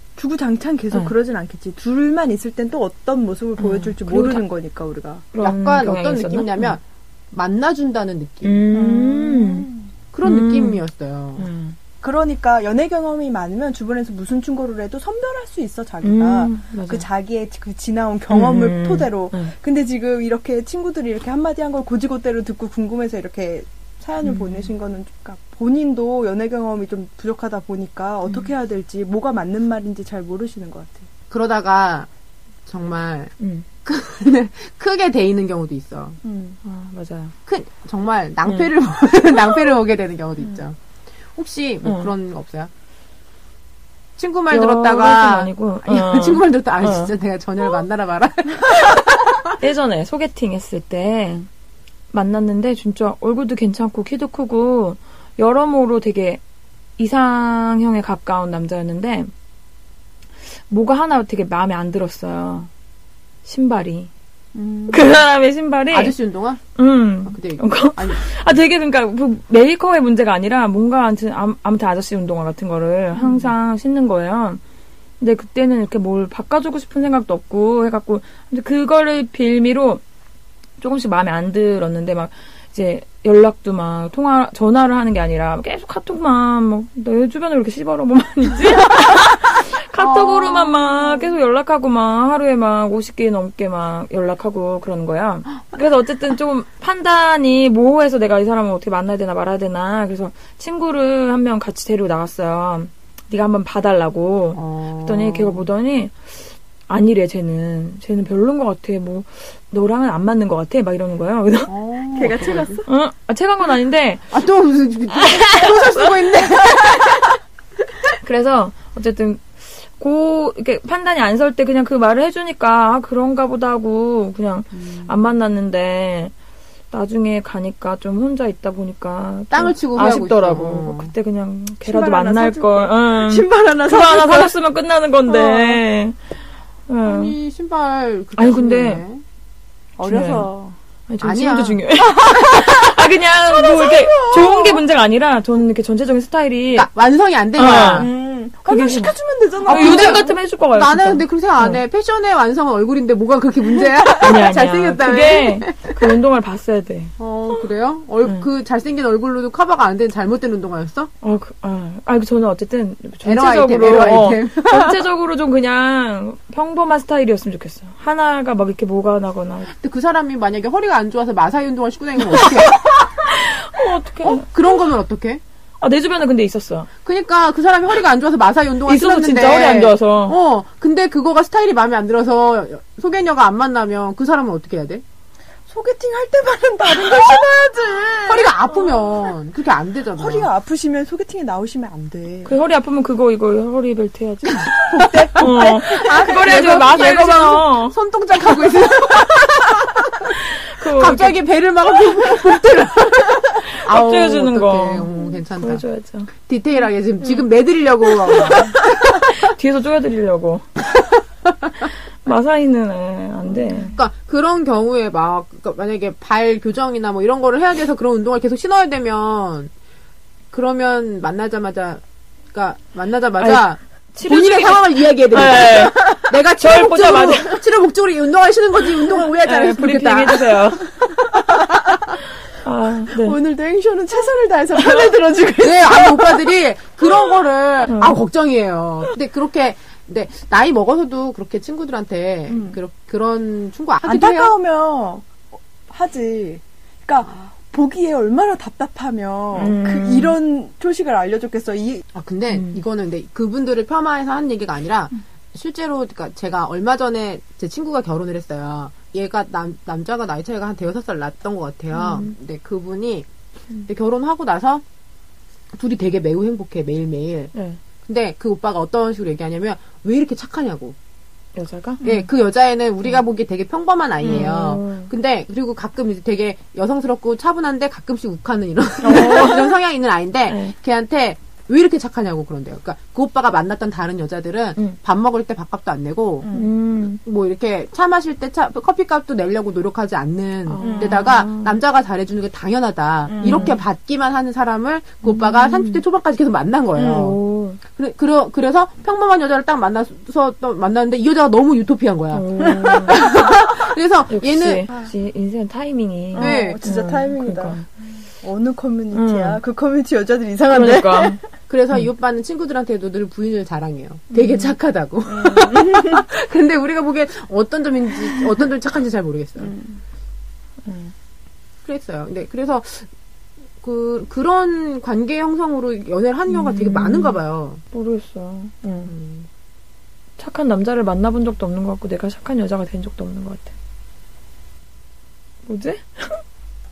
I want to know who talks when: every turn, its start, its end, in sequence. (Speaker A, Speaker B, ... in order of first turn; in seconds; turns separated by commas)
Speaker A: 0.2-5.3, Speaker B: 3.6-4.4, Speaker B: 5.3-6.8, Speaker C: 5.4-8.6, Speaker B: 8.4-9.7, Speaker A: 8.7-9.9, Speaker C: 10.1-11.5, Speaker B: 10.2-10.8, Speaker B: 11.4-11.8, Speaker A: 12.0-31.1, Speaker B: 16.0-17.1, Speaker B: 18.3-19.5, Speaker B: 24.2-24.7, Speaker C: 31.3-32.1, Speaker C: 32.7-33.3, Speaker B: 33.4-33.6, Speaker C: 33.9-36.2, Speaker A: 36.2-36.6, Speaker B: 36.6-37.3, Speaker C: 37.5-40.8, Speaker C: 41.4-42.7, Speaker B: 41.8-42.1, Speaker C: 44.2-49.6, Speaker B: 44.5-47.1, Speaker B: 49.6-51.5, Speaker B: 52.1-56.4, Speaker B: 57.0-59.3, Speaker B: 60.7-62.7, Speaker B: 63.5-64.1, Speaker A: 64.5-65.1, Speaker B: 64.9-66.2, Speaker C: 65.9-66.6, Speaker B: 66.8-74.6, Speaker C: 67.3-68.2, Speaker A: 73.2-73.5, Speaker B: 75.2-80.0, Speaker B: 80.8-106.2, Speaker C: 90.0-91.2, Speaker C: 104.5-105.7, Speaker B: 106.9-111.7, Speaker C: 111.7-112.7, Speaker A: 112.1-112.9, Speaker B: 112.4-114.3, Speaker C: 114.3-117.4, Speaker B: 115.1-116.1, Speaker B: 118.2-126.3, Speaker B: 126.9-136.2, Speaker C: 129.5-131.1, Speaker A: 131.8-134.6, Speaker A: 135.3-135.8, Speaker B: 136.9-137.3, Speaker C: 137.0-139.2, Speaker B: 138.4-139.0, Speaker A: 140.0-140.8, Speaker B: 140.0-140.5, Speaker B: 141.1-146.9, Speaker C: 141.2-141.8, Speaker A: 142.3-142.8, Speaker A: 143.5-144.8, Speaker C: 146.7-148.1, Speaker B: 147.6-148.1, Speaker A: 148.0-150.4, Speaker B: 148.7-151.8, Speaker C: 149.7-156.1, Speaker B: 154.2-157.1, Speaker C: 157.2-161.1, Speaker B: 161.2-169.7, Speaker C: 163.2-165.0, Speaker C: 169.7-173.2, Speaker B: 172.3-174.5, Speaker C: 174.2-175.4, Speaker B: 175.8-176.9, Speaker C: 177.0-185.0, Speaker B: 178.9-180.4, Speaker A: 185.7-189.3, Speaker C: 188.3-190.5, Speaker A: 190.2-192.5, Speaker B: 192.4-198.0, Speaker A: 194.8-196.7, Speaker C: 195.9-205.8, Speaker B: 200.3-201.4, Speaker B: 203.6-206.3, Speaker C: 206.3-209.3, Speaker B: 208.1-210.7, Speaker B: 212.2-214.0, Speaker C: 213.9-219.7, Speaker C: 220.5-222.0, Speaker C: 222.5-231.9, Speaker B: 223.4-226.0, Speaker B: 226.5-227.6, Speaker B: 229.4-230.9, Speaker B: 232.5-233.4, Speaker A: 233.1-236.5, Speaker C: 235.6-244.5, Speaker B: 237.8-238.2, Speaker A: 242.5-242.8, Speaker A: 244.0-245.4, Speaker A: 245.9-252.0, Speaker B: 249.6-250.4, Speaker C: 252.1-263.3, Speaker B: 252.5-252.8, Speaker B: 262.0-262.3, Speaker C: 263.9-264.8, Speaker C: 265.7-267.5, Speaker B: 267.5-267.8, Speaker C: 268.1-270.9, Speaker B: 271.6-272.0, Speaker C: 272.0-286.5, Speaker B: 274.2-275.1, Speaker B: 279.0-279.7, Speaker B: 280.5-280.7, Speaker A: 286.4-286.7, Speaker B: 286.5-287.2, Speaker C: 287.2-304.9, Speaker B: 290.7-291.8, Speaker A: 290.8-291.2, Speaker A: 293.3-293.8, Speaker B: 293.4-293.8, Speaker B: 295.2-296.0, Speaker A: 297.0-297.3, Speaker B: 297.0-297.8, Speaker B: 302.3-303.2, Speaker B: 304.3-307.9, Speaker A: 306.3-307.8, Speaker C: 306.4-306.8, Speaker A: 308.4-311.4, Speaker B: 309.1-309.6, Speaker B: 310.7-311.4, Speaker C: 311.7-319.7, Speaker A: 315.3-316.2, Speaker A: 319.6-320.0, Speaker B: 320.9-321.1, Speaker C: 321.9-323.1, Speaker C: 323.8-327.8, Speaker B: 326.5-327.4, Speaker B: 327.9-329.1, Speaker C: 329.1-329.5, Speaker B: 330.4-333.7, Speaker B: 335.7-336.4